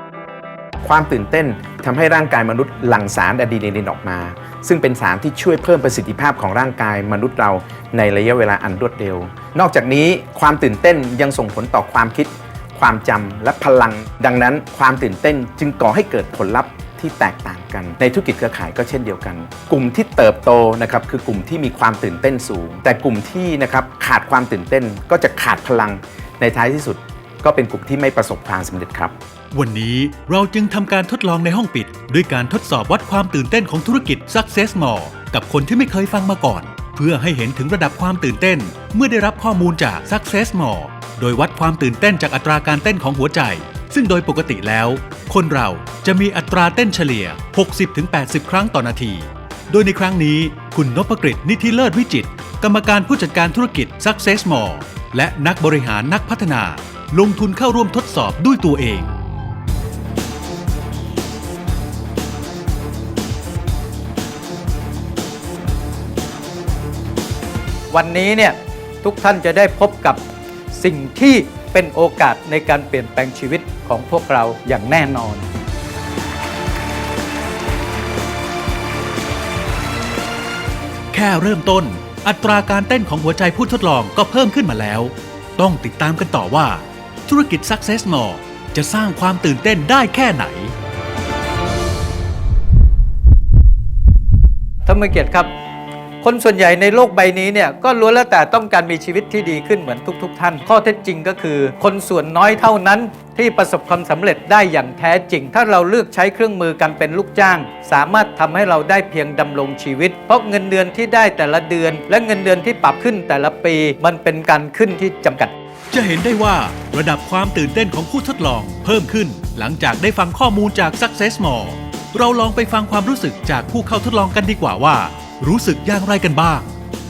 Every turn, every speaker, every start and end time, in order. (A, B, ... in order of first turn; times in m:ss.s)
0:00.8-0:29.1 A
0:29.5-0:59.1 B
1:07.9-1:15.5 C
1:21.1-1:30.7 B
1:34.8-1:35.5 C
1:36.2-1:55.5 C
1:55.9-2:06.7 B